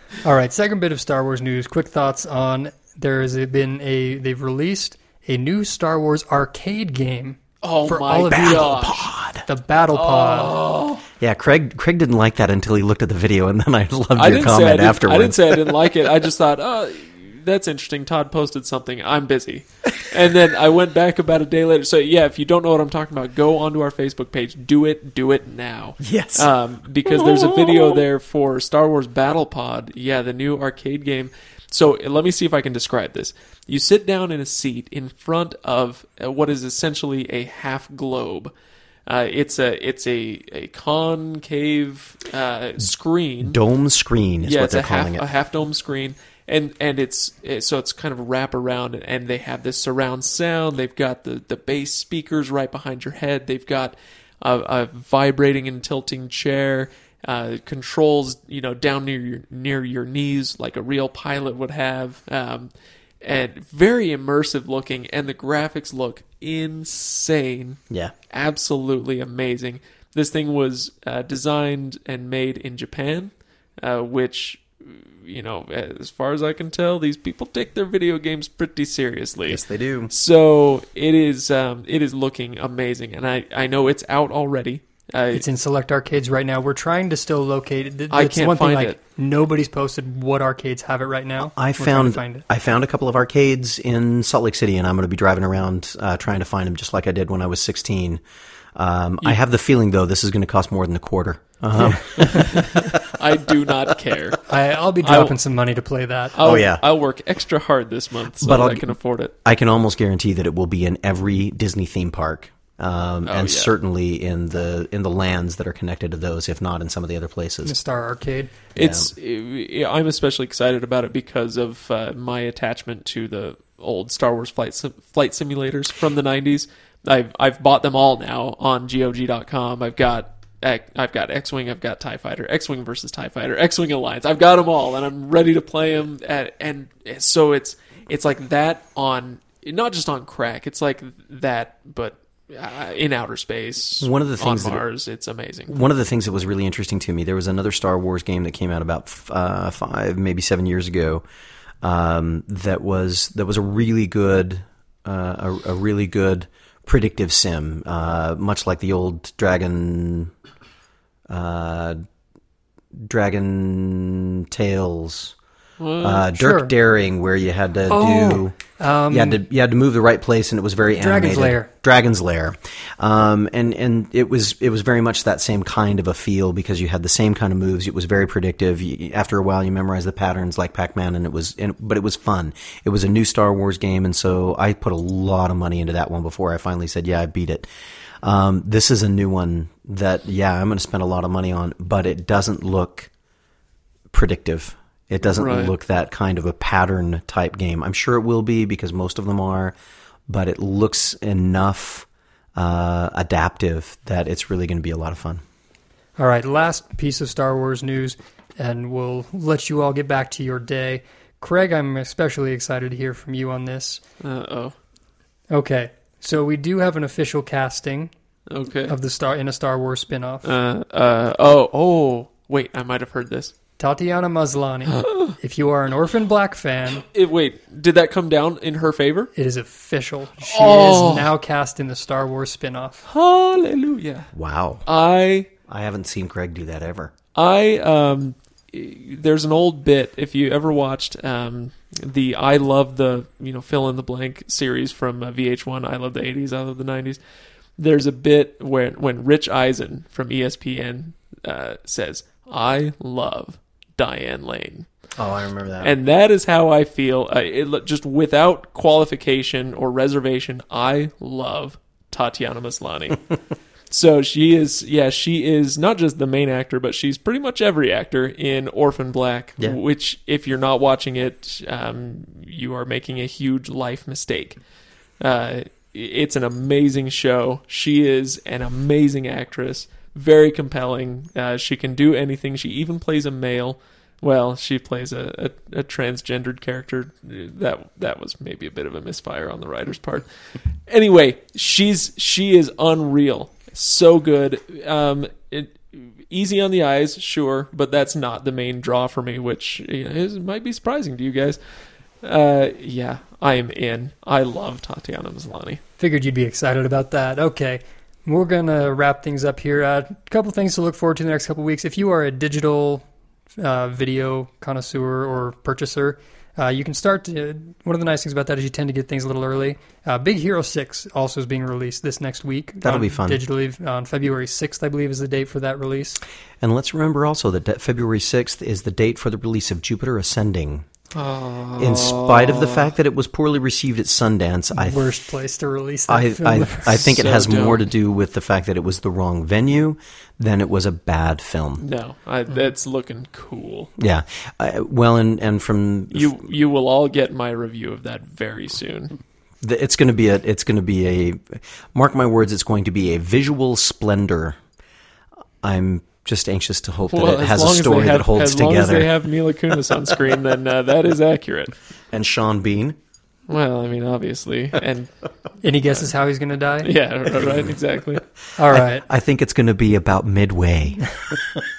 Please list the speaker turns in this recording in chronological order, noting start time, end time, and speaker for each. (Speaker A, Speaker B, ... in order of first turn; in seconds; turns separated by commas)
Speaker A: 0.2-8.8, Speaker B: 7.6-9.1, Speaker C: 8.3-9.4, Speaker A: 9.5-10.6, Speaker B: 9.9-11.0, Speaker C: 11.2-15.9, Speaker B: 14.2-38.5, Speaker C: 26.0-26.5, Speaker B: 39.0-43.6, Speaker C: 43.4-45.2, Speaker B: 44.4-62.7, Speaker B: 63.2-85.4, Speaker C: 79.5-80.1, Speaker A: 85.3-92.4, Speaker B: 88.1-89.0, Speaker C: 91.5-98.2, Speaker C: 98.8-103.1, Speaker A: 101.8-102.4, Speaker B: 102.2-104.4, Speaker A: 104.5-106.3, Speaker B: 105.0-105.4, Speaker B: 106.3-109.3, Speaker C: 106.4-106.8, Speaker C: 108.4-117.7, Speaker B: 113.2-113.7, Speaker A: 117.6-118.5, Speaker C: 118.8-119.1, Speaker B: 118.8-145.8, Speaker C: 144.0-144.8, Speaker C: 145.7-151.2, Speaker C: 151.8-160.3, Speaker C: 161.3-162.0, Speaker C: 162.9-165.3, Speaker B: 165.8-166.2, Speaker C: 166.0-187.7, Speaker A: 166.3-166.7, Speaker A: 167.9-169.4, Speaker A: 170.9-171.7, Speaker C: 188.2-193.1, Speaker C: 194.1-199.8, Speaker B: 195.4-195.7, Speaker C: 200.3-205.4, Speaker A: 206.2-214.0, Speaker B: 214.2-214.7, Speaker A: 215.5-218.1, Speaker B: 218.5-218.9, Speaker A: 218.9-220.5, Speaker B: 220.4-223.5, Speaker A: 223.8-227.0, Speaker B: 224.9-225.4, Speaker B: 227.1-229.3, Speaker A: 229.3-233.1, Speaker B: 230.4-231.3, Speaker B: 233.1-234.3, Speaker C: 234.3-234.8, Speaker B: 234.8-235.5, Speaker C: 235.7-237.1, Speaker B: 237.3-247.2, Speaker B: 247.8-254.9, Speaker C: 255.2-255.9, Speaker B: 255.8-263.2, Speaker B: 263.9-274.6, Speaker B: 275.2-301.6, Speaker B: 302.2-305.8, Speaker A: 306.0-313.0, Speaker A: 313.6-326.2, Speaker C: 322.8-323.4, Speaker C: 326.6-330.9, Speaker B: 331.1-332.9, Speaker C: 331.8-335.1, Speaker A: 334.7-337.1, Speaker C: 336.1-341.8, Speaker B: 337.0-337.8, Speaker B: 341.8-343.9, Speaker C: 344.0-346.4, Speaker B: 346.1-349.2, Speaker C: 349.6-354.6, Speaker C: 355.6-359.1, Speaker B: 357.1-361.7, Speaker C: 362.1-362.9, Speaker B: 363.5-365.1, Speaker A: 365.6-366.9, Speaker B: 366.8-368.2, Speaker A: 368.6-369.1, Speaker C: 368.9-371.2